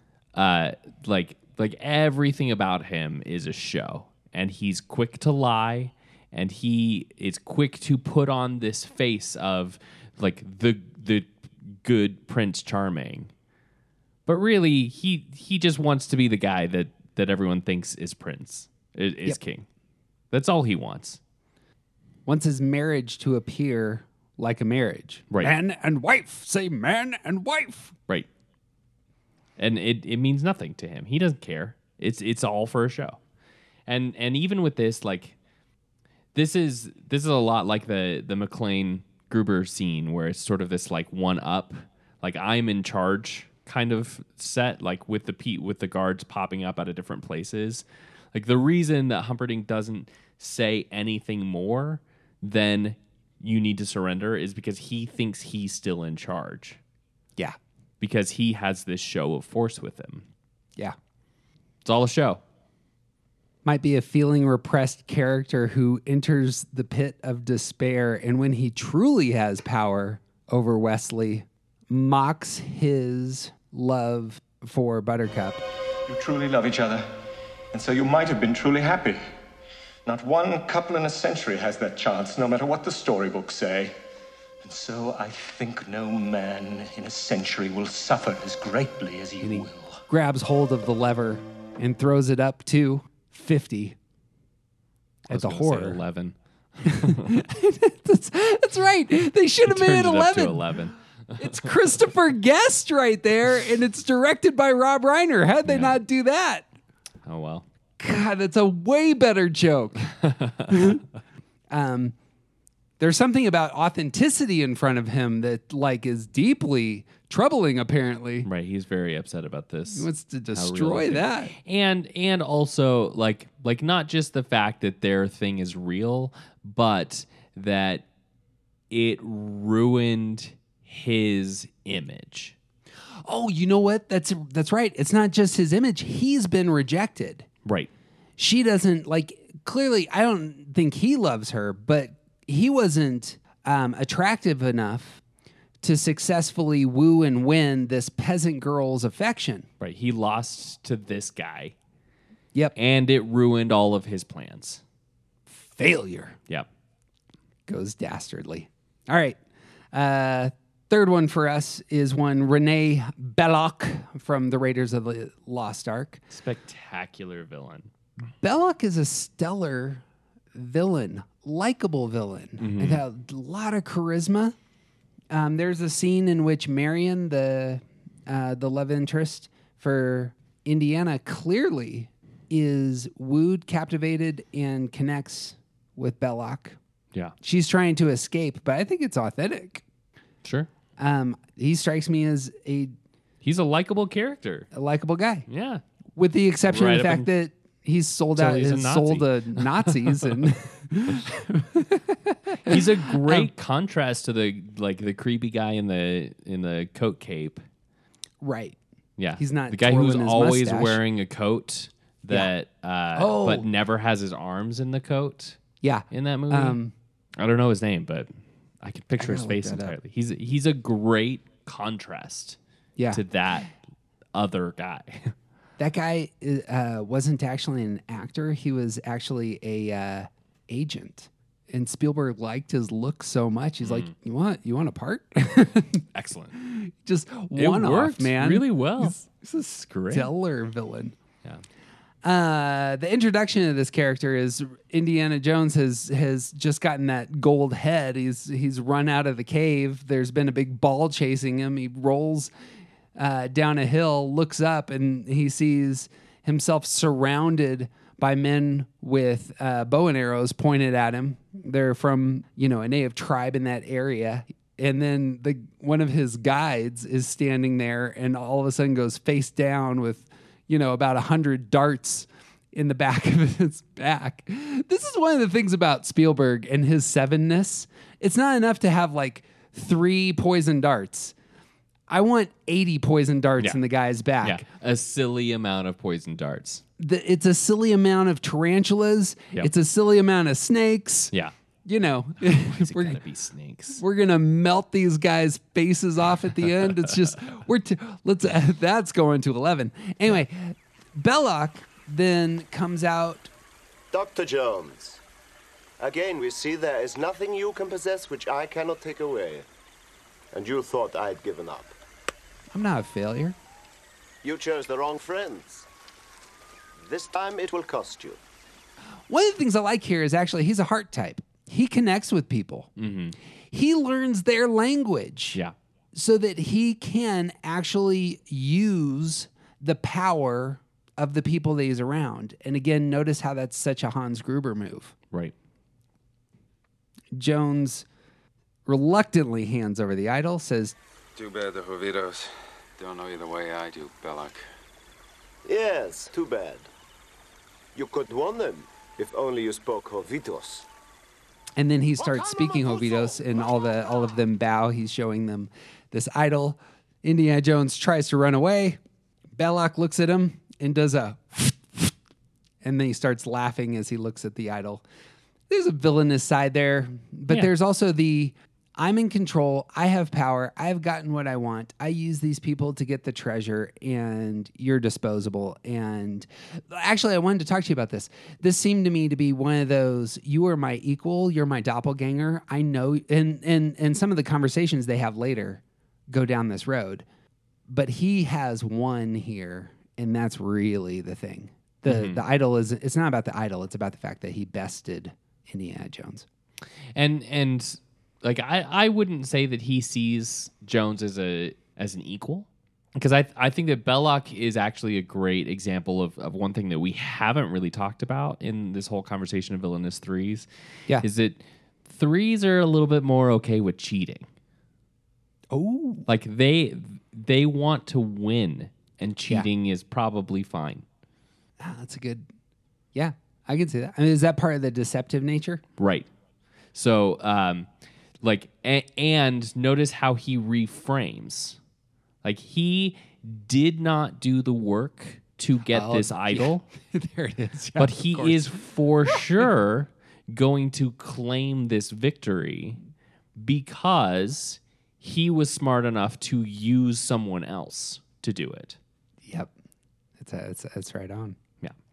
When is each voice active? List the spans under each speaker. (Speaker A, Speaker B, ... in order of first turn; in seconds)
Speaker A: 0.3-13.3, 14.3-19.7, 20.3-21.2, 29.6-33.2, 33.9-35.4, 36.3-56.8, 58.0-60.3, 61.8-62.4, 95.3-97.4, 99.7-101.6, 105.7-106.0, 107.2-107.6, 110.2-111.0, 118.4-128.1, 128.9-132.6, 137.6-137.9, 149.8-151.7, 152.8-154.8, 166.3-167.9, 172.6-173.0, 190.4-190.7, 193.4-194.7, 195.5-195.8, 196.7-197.3, 198.4-200.4, 202.7-207.6, 209.2-215.6, 216.1-216.8, 217.4-218.3, 218.8-222.6, 223.1-223.7, 224.3-225.3, 233.8-234.1, 236.1-236.5, 237.6-240.3, 284.4-286.8, 292.4-294.0, 323.0-323.4, 392.1-392.4, 397.2-410.7, 411.2-414.4, 416.3-421.1, 426.0-426.3, 426.9-427.9, 428.4-431.8, 432.4-436.9, 438.0-443.0, 443.6-449.0
Speaker B: 22.3-27.9, 63.6-75.6, 89.4-94.0, 95.3-96.0, 96.9-100.7, 101.4-106.7, 108.0-110.1, 110.7-111.0, 111.7-112.1, 113.0-118.5, 119.9-121.5, 133.2-137.5, 138.4-145.2, 145.8-149.7, 155.5-156.4, 157.7-159.4, 159.9-166.2, 168.4-170.0, 170.6-174.6, 175.3-186.8, 187.4-189.8, 191.0-192.9, 194.7-195.5, 196.2-203.5, 208.4-208.8, 209.4-211.0, 213.2-213.6, 215.8-216.9, 219.2-219.9, 225.8-236.0, 236.6-239.6, 240.1-241.2, 242.2-252.5, 253.2-281.3, 282.1-284.6, 287.0-291.3, 291.9-293.2, 294.0-303.5, 312.7-313.6, 319.3-322.9, 323.7-325.6, 326.1-335.1, 337.3-338.1, 338.9-340.9, 351.8-359.0, 359.6-362.1, 362.8-365.0, 365.7-387.2, 387.9-396.4, 415.7-416.2, 421.8-422.5, 423.1-425.8, 435.9-438.6, 449.4-449.7, 450.4-451.6
Speaker C: 76.1-77.1, 77.7-79.2, 80.0-84.0, 84.6-90.0
Speaker D: 304.1-305.2, 306.0-309.7, 310.5-311.9, 314.4-315.9, 317.0-318.4, 345.7-346.9, 347.9-350.9
Speaker E: 341.4-344.6